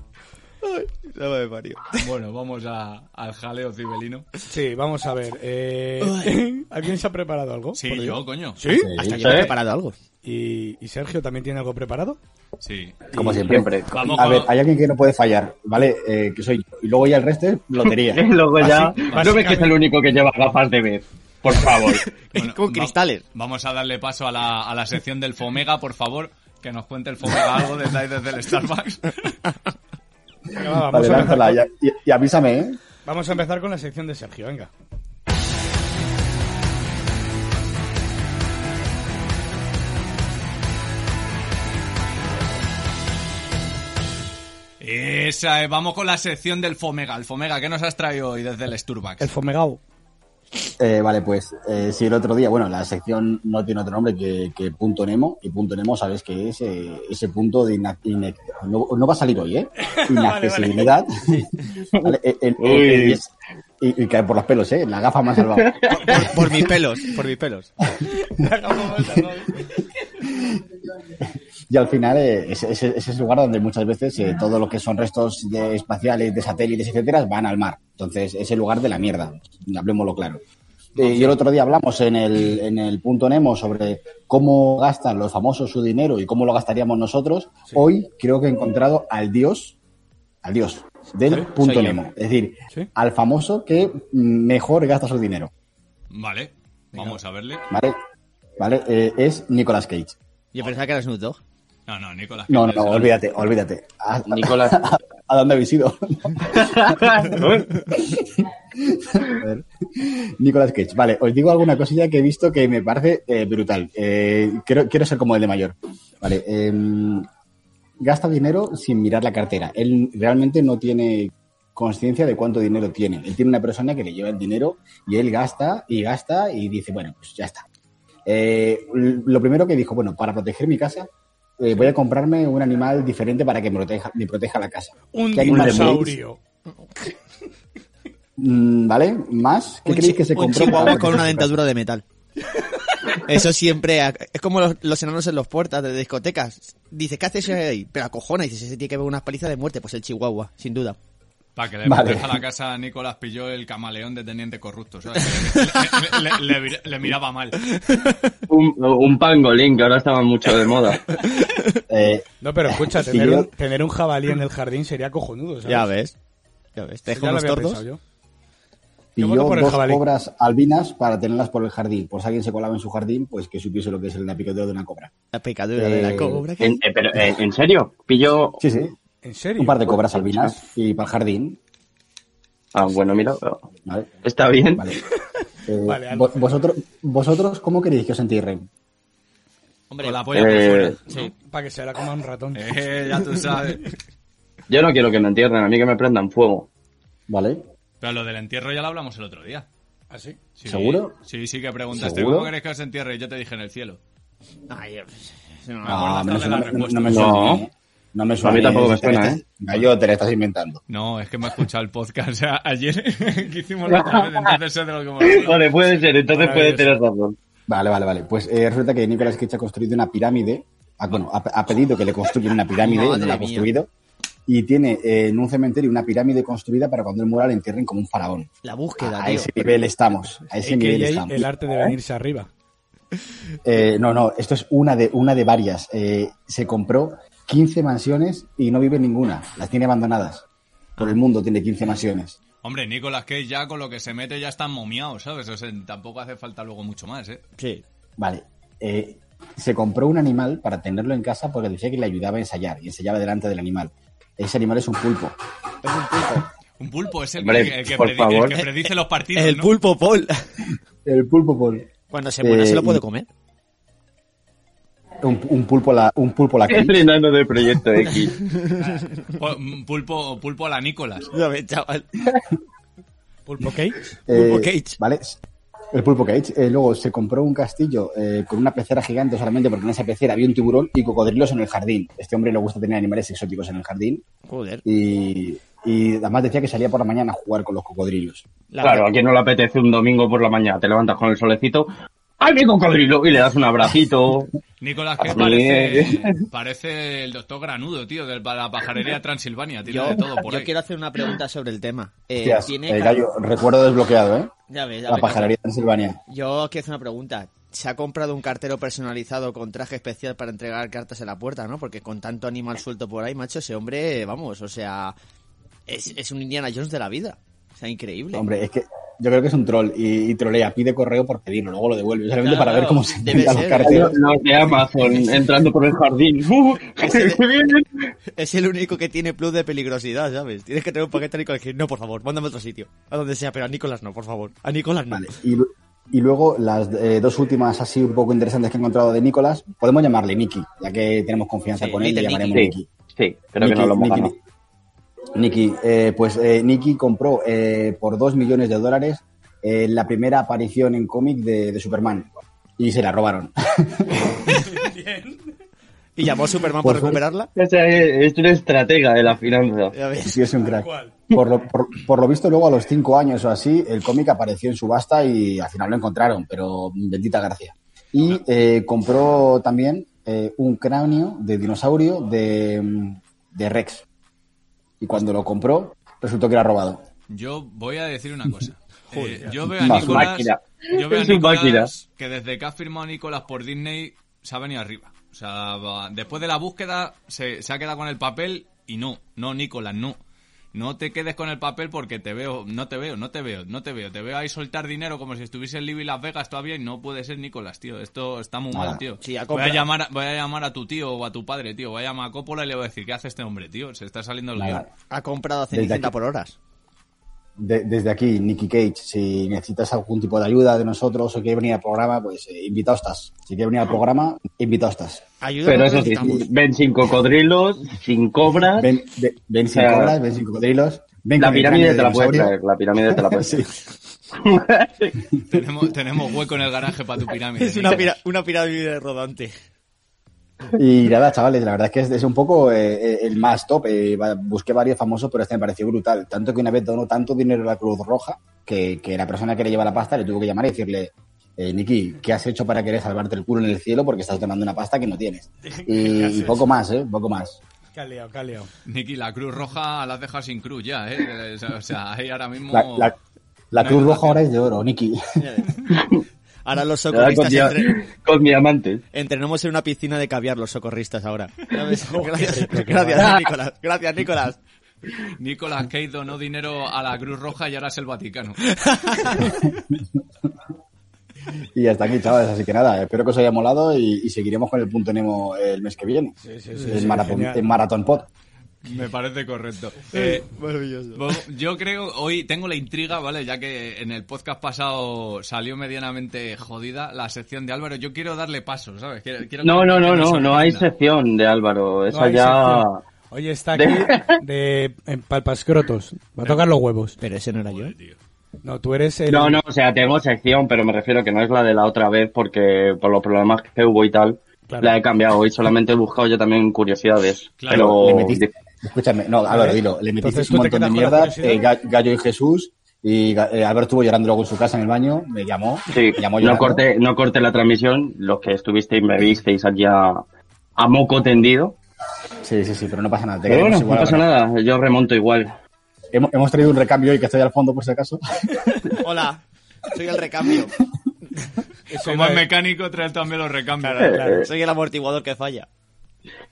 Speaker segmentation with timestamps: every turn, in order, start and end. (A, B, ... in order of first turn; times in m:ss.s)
0:00.6-0:02.0 A
0:02.0-0:04.3 B
0:04.5-0:07.8 C
0:06.0-0:06.3 A
0:07.8-0:08.6 B
0:07.9-0:08.2 A
0:08.6-0:08.9 C
0:08.7-0:09.4 D
0:09.0-0:10.0 A
0:09.1-0:09.6 E
0:10.2-0:12.2 C
0:12.6-0:13.1 B
0:13.2-0:18.2 D
0:13.2-0:13.9 E
0:13.9-0:14.5 B
0:17.9-0:22.0 E
0:19.0-0:19.6 B
0:19.1-0:19.8 C
0:22.3-0:23.2 A
0:22.4-0:29.2 B
0:30.5-0:31.6 C
0:30.9-0:32.8 D
0:33.0-0:34.7 C
0:44.8-0:49.3 B
0:49.2-0:49.8 C
0:50.8-1:01.1 D
0:59.8-1:00.9 C
1:01.3-1:01.8 A
1:02.0-1:03.2 E
1:02.0-1:03.3 D
1:03.8-1:05.7 D
1:05.6-1:06.4 E
1:05.9-1:07.7 A
1:08.2-1:09.8 C
1:10.3-1:10.6 D
1:11.2-1:20.4 D
1:21.0-1:29.8 D
1:21.0-1:21.3 C
1:30.4-1:35.5 D
1:31.6-1:32.0 A
1:36.1-1:37.6 B
1:37.7-1:38.0 D
1:38.6-1:40.2 D
1:40.5-1:41.4 A
1:41.9-1:43.2 B
1:42.5-1:47.0 D
1:44.3-1:44.8 E
1:46.5-1:47.8 E
1:48.0-1:57.3 D
1:58.0-2:07.6 D
2:08.3-2:16.2 D
2:15.1-2:16.4 C
2:15.5-2:16.0 E
2:18.4-2:21.6 D
2:19.9-2:22.0 A
2:23.2-2:31.0 A
2:31.6-2:37.8 B
2:31.8-2:32.4 D
2:37.8-2:38.1 A
2:38.5-2:41.0 E
2:41.2-2:41.8 A
2:41.9-2:43.5 D
2:42.4-2:45.9 C
2:45.6-2:46.2 A
2:46.8-2:47.8 A
2:47.1-2:48.0 C
2:49.2-2:55.1 D
2:49.2-2:50.0 C
2:55.3-2:56.8 A
2:55.8-2:56.4 D
2:56.6-2:58.6 E
2:58.6-2:58.9 D
2:59.2-3:00.0 C
2:59.6-3:01.6 D
3:02.7-3:03.6 E
3:03.9-3:04.2 D
3:04.2-3:04.9 E
3:05.7-3:08.7 D
3:05.8-3:06.6 C
3:09.9-3:10.5 A
3:10.0-3:11.3 B
3:10.3-3:11.0 E
3:11.5-3:12.6 C
3:12.6-3:13.9 B
3:14.7-3:16.7 E
3:17.3-3:17.6 D
3:18.0-3:19.7 B
3:20.1-3:20.4 C
3:20.6-3:24.0 B
3:20.7-3:21.2 D
3:21.9-3:22.5 D
3:24.7-3:26.2 A
3:25.8-3:27.6 B
3:25.8-3:30.8 D
3:27.1-3:27.6 E
3:28.4-3:29.4 E
3:30.9-3:35.6 B
3:33.9-3:34.5 E
3:35.2-3:37.4 E
3:36.3-3:37.0 C
3:37.7-3:43.9 D
3:42.8-3:43.7 A
3:44.5-3:51.9 D
3:48.6-3:49.7 A
3:50.6-3:52.5 C
3:53.6-4:00.4 D
4:01.0-4:02.4 D
4:02.6-4:07.4 B
4:07.6-4:07.8 A
4:08.2-4:15.4 D
4:15.8-4:16.5 A
4:16.8-4:19.7 B
4:17.4-4:18.6 E
4:18.5-4:20.4 A
4:21.0-4:21.9 D
4:22.1-4:23.3 A
4:22.4-4:23.0 D
4:25.2-4:27.0 D
4:26.7-4:28.4 E
4:28.0-4:29.2 A
4:29.4-4:31.3 B
4:31.3-4:32.3 A
4:33.5-4:34.0 C
4:34.3-4:35.4 D
4:34.3-4:35.0 A
4:35.9-4:44.2 D
4:44.5-4:44.8 A
4:44.8-4:48.4 D
4:48.7-4:49.1 A
4:48.8-4:51.9 E
4:52.4-4:54.5 E
4:54.8-5:00.7 B
4:55.2-4:56.4 E
4:59.9-5:03.2 A
5:02.4-5:04.5 D
5:04.7-5:05.5 A
5:05.1-5:06.2 D
5:06.3-5:15.2 A
5:15.9-5:18.4 A
5:18.3-5:24.2 D
5:22.4-5:24.2 A
5:23.8-5:28.1 E
5:27.0-5:27.4 A
5:28.4-5:35.3 A
5:35.1-5:42.9 D
5:41.8-5:42.7 A
5:42.5-5:44.3 E
5:43.6-5:44.4 D
5:45.4-5:54.3 D
5:54.5-5:55.5 C
5:56.2-5:57.5 A
5:56.8-5:57.2 D
5:57.6-5:59.9 E
5:59.9-6:00.4 A
6:00.2-6:14.0 D
6:00.6-6:01.2 C
6:15.0-6:17.0 D
6:17.3-6:30.2 B
6:19.8-6:20.3 D
6:19.9-6:21.9 E
6:30.7-6:44.9 B
6:38.7-6:39.0 D
6:39.2-6:39.9 A
6:44.6-6:44.9 D
6:45.1-6:46.6 A
6:45.7-6:46.1 D
6:47.6-6:55.2 D
6:55.4-6:56.5 A
6:55.6-6:58.9 E
6:58.8-7:02.5 D
6:59.7-7:00.1 E
7:01.4-7:03.7 E
7:03.1-7:03.7 D
7:04.4-7:05.2 E
7:05.4-7:08.1 B
7:07.6-7:09.5 A
7:10.7-7:27.6 D
7:25.6-7:26.7 C
7:27.9-7:28.7 C
7:28.9-7:33.1 B
7:32.7-7:33.2 D
7:33.7-7:35.2 D
7:33.8-7:34.4 B
7:35.4-7:35.8 A
7:35.9-7:36.2 E
7:36.6-7:37.9 A
7:37.1-7:39.0 E
7:39.1-7:44.6 A
7:42.1-7:43.3 C
7:45.4-7:48.7 B
7:48.8-7:49.5 A
7:51.8-7:56.4 D
7:56.4-7:57.6 C
7:56.9-7:58.3 D
7:58.8-8:00.5 B
8:00.1-8:01.4 A
8:01.1-8:10.9 B
8:09.6-8:13.0 E
8:12.1-8:17.2 C
8:13.8-8:14.4 E
8:17.2-8:18.0 A
8:17.7-8:18.2 B
8:18.6-8:19.6 C
8:19.3-8:28.5 E
8:24.7-8:25.0 C
8:27.6-8:28.2 B
8:27.7-8:36.8 D
8:29.5-8:31.6 C
8:35.9-8:40.2 E
8:40.8-8:41.8 E
8:42.4-8:44.2 D
8:43.5-8:45.6 E
8:46.1-8:48.8 D
8:49.0-8:50.7 A
8:51.9-8:52.5 C
8:52.0-8:54.1 B
8:53.8-8:55.7 A
8:54.0-8:54.5 E
8:54.0-8:54.4 C